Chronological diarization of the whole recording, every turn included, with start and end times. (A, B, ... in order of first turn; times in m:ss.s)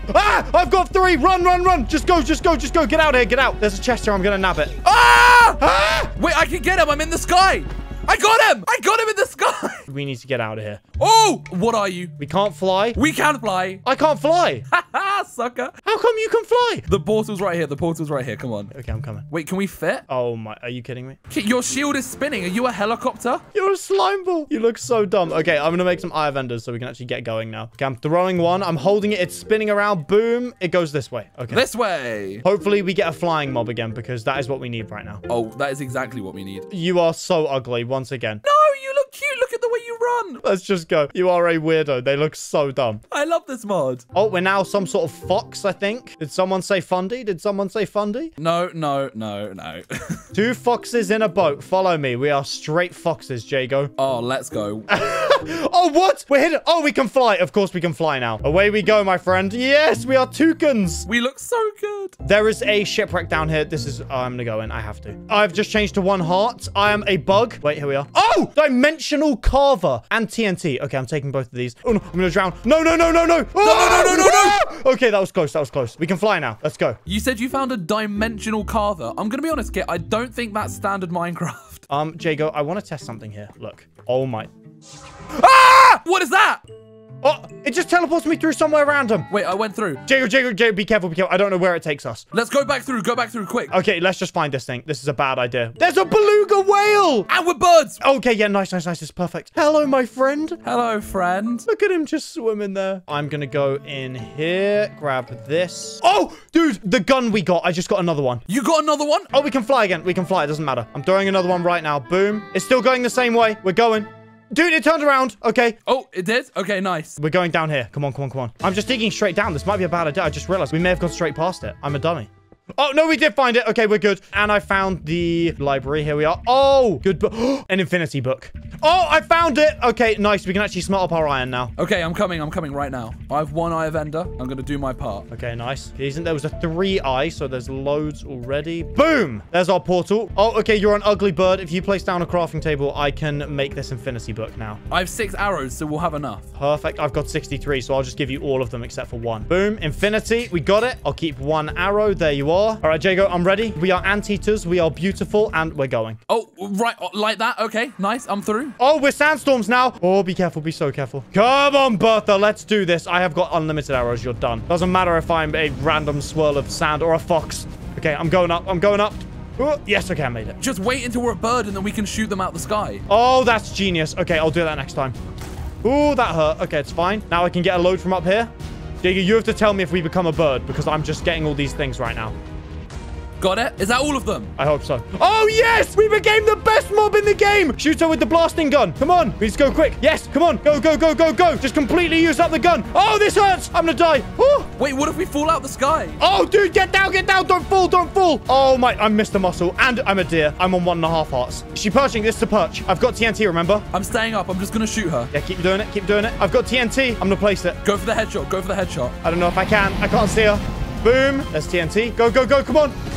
0:00.1-0:04.8 A
0:04.8-0:09.9 B
0:05.6-0:06.1 A
0:09.9-0:10.8 A
0:11.0-0:12.2 B
0:12.2-0:13.0 A
0:12.9-0:13.8 B
0:13.8-0:14.7 A
0:14.7-0:15.8 B
0:15.8-0:16.9 A
0:16.9-0:18.7 B
0:18.7-0:19.2 A
0:19.3-0:20.0 B
0:20.1-0:21.2 A
0:21.3-0:23.4 B
0:23.5-0:31.6 A
0:31.5-0:32.4 B
0:32.4-0:35.2 A
0:35.3-0:36.7 B
0:36.7-0:38.4 A
0:38.4-0:40.4 B
0:40.4-0:43.0 A
0:43.1-0:44.0 B
0:44.1-0:48.3 A
0:48.4-0:50.2 B
0:50.3-0:53.9 A
0:54.0-0:54.9 B
0:54.9-1:01.1 A
1:01.1-1:02.2 B
1:02.2-1:17.0 A
1:13.6-1:14.6 B
1:17.1-1:21.8 B
1:21.9-1:24.5 A
1:25.4-1:26.6 B
1:27.2-1:29.3 A
1:29.3-1:30.0 B
1:30.0-1:32.2 A
1:32.3-1:33.7 B
1:33.7-1:37.3 A
1:37.3-1:38.0 B
1:38.0-1:40.6 A
1:40.6-1:41.7 B
1:41.7-1:48.4 A
1:48.5-1:49.3 B
1:49.3-1:55.8 A
1:55.9-1:57.2 B
1:57.2-2:11.7 A
2:11.8-2:15.3 B
2:15.3-2:24.8 A
2:24.9-2:26.4 B
2:26.6-2:36.2 A
2:36.3-2:38.8 B
2:38.8-2:50.6 A
2:50.6-2:53.0 B
2:53.1-2:55.2 A
2:55.8-2:58.5 A
2:59.0-3:02.3 A
3:03.4-3:04.5 B
3:04.6-3:14.7 A
3:14.8-3:16.2 B
3:16.2-3:23.8 A
3:23.9-3:25.3 B
3:25.3-3:27.8 A
3:27.8-3:29.2 B
3:29.2-3:32.9 A